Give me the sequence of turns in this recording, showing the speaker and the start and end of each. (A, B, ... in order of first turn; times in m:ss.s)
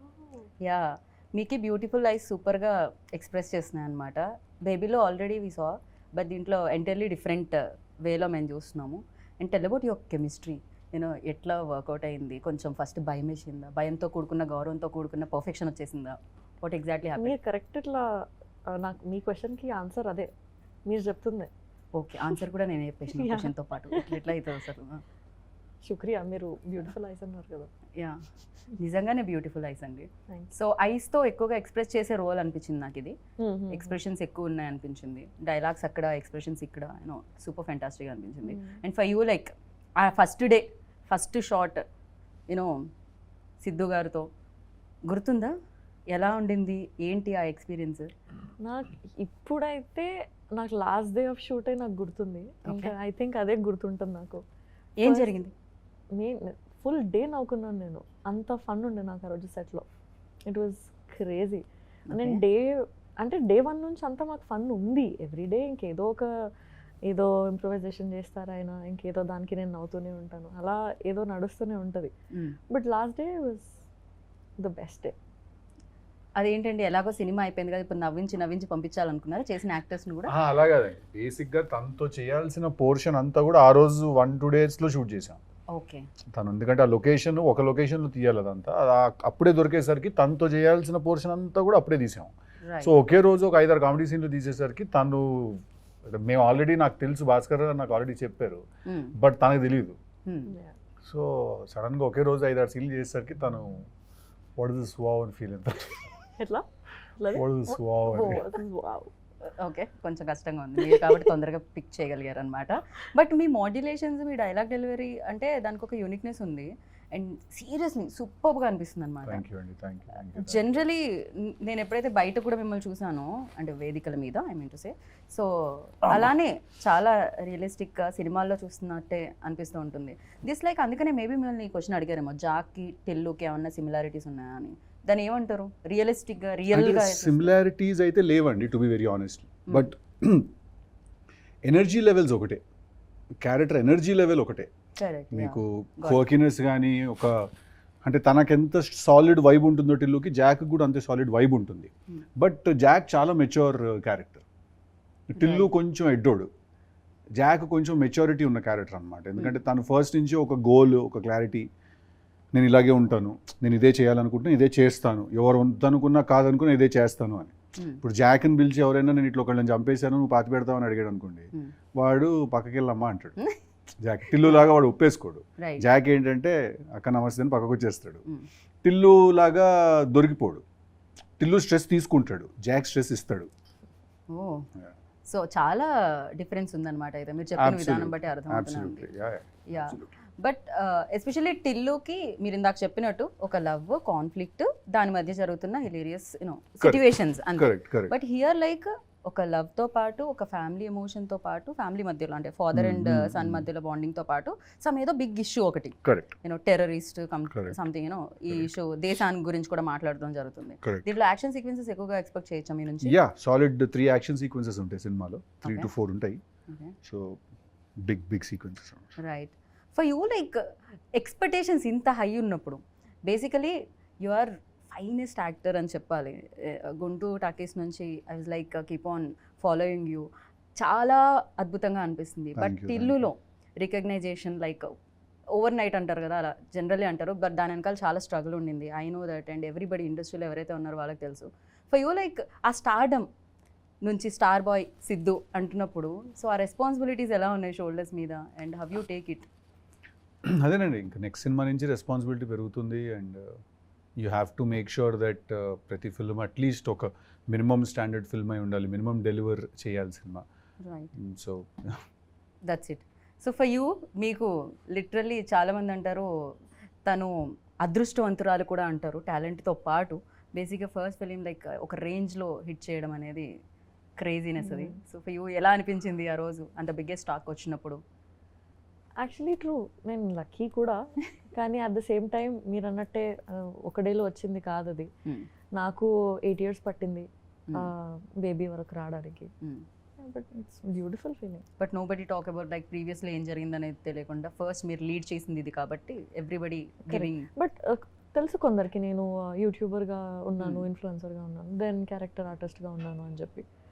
0:00.6-0:17.4 A
0:17.2-0:18.0 B
0:18.7-0:20.3 B
0:20.9-0:21.5 B
0:21.9-0:25.0 A
0:23.1-0:24.2 B
0:25.8-0:27.7 B
0:28.0-0:28.2 A
0:28.8-0:33.1 A
0:33.4-0:33.9 B
0:33.7-0:41.8 A
0:38.5-0:38.8 B
0:43.6-0:44.2 A
0:45.1-0:45.5 A
0:46.1-0:48.1 A
0:48.6-0:54.4 B
0:52.6-0:52.9 A
0:55.0-0:55.5 A
0:55.0-0:55.3 B
0:56.2-0:59.8 B
1:00.5-1:06.3 B
1:02.1-1:02.4 A
1:07.1-1:12.1 B
1:12.3-1:12.6 A
1:12.7-1:13.7 B
1:14.6-1:15.1 B
1:16.4-1:20.3 A
1:20.3-1:25.4 C
1:25.7-1:26.1 A
1:26.3-1:38.6 C
1:32.6-1:32.9 A
1:38.8-1:39.1 A
1:39.2-1:40.0 C
1:40.2-1:40.5 A
1:40.5-1:40.8 B
1:41.0-1:43.9 C
1:44.6-1:46.1 C
1:46.4-1:46.6 B
1:47.2-1:49.1 B
1:47.3-1:48.4 C
1:48.0-1:48.4 A
1:49.4-1:59.4 A
1:50.8-1:51.2 B
1:59.2-2:00.8 C
2:00.3-2:17.5 A
2:16.7-2:20.5 C
2:21.6-2:22.6 C
2:23.4-2:24.7 C
2:25.0-2:26.3 A
2:25.3-2:27.5 C
2:28.0-2:34.4 C
2:35.3-2:36.5 C
2:35.4-2:35.7 A
2:37.4-2:41.7 C
2:42.5-2:53.4 C
2:47.8-2:48.0 A
2:54.0-2:58.2 C
2:55.6-2:55.8 A
2:58.8-3:00.6 C
3:01.4-3:03.5 C
3:04.3-3:04.6 A
3:05.2-3:09.1 A
3:07.6-3:10.1 C
3:09.7-3:33.2 A
3:17.5-3:18.1 C
3:22.7-3:23.7 C
3:26.0-3:26.3 C
3:27.5-3:27.8 C
3:30.8-3:31.1 C
3:33.0-3:36.4 C
3:35.6-3:35.9 A
3:36.7-3:36.9 A
3:37.0-3:37.4 C
3:38.0-3:39.0 C
3:39.2-3:50.3 A
3:50.8-3:54.9 A
3:52.6-3:53.2 C
3:55.5-4:03.3 A
4:04.0-4:09.5 A
4:10.5-4:13.6 C
4:14.2-4:20.4 C
4:20.8-4:21.1 A
4:21.2-4:22.0 C
4:22.7-4:26.3 A
4:27.0-4:33.5 A
4:34.2-4:38.0 A
4:34.6-4:35.0 B
4:39.2-4:41.0 B
4:41.5-4:45.1 B
4:45.8-4:49.5 B
4:50.2-4:51.6 B
4:51.8-4:57.5 A
4:57.1-5:03.6 B
5:00.6-5:00.8 A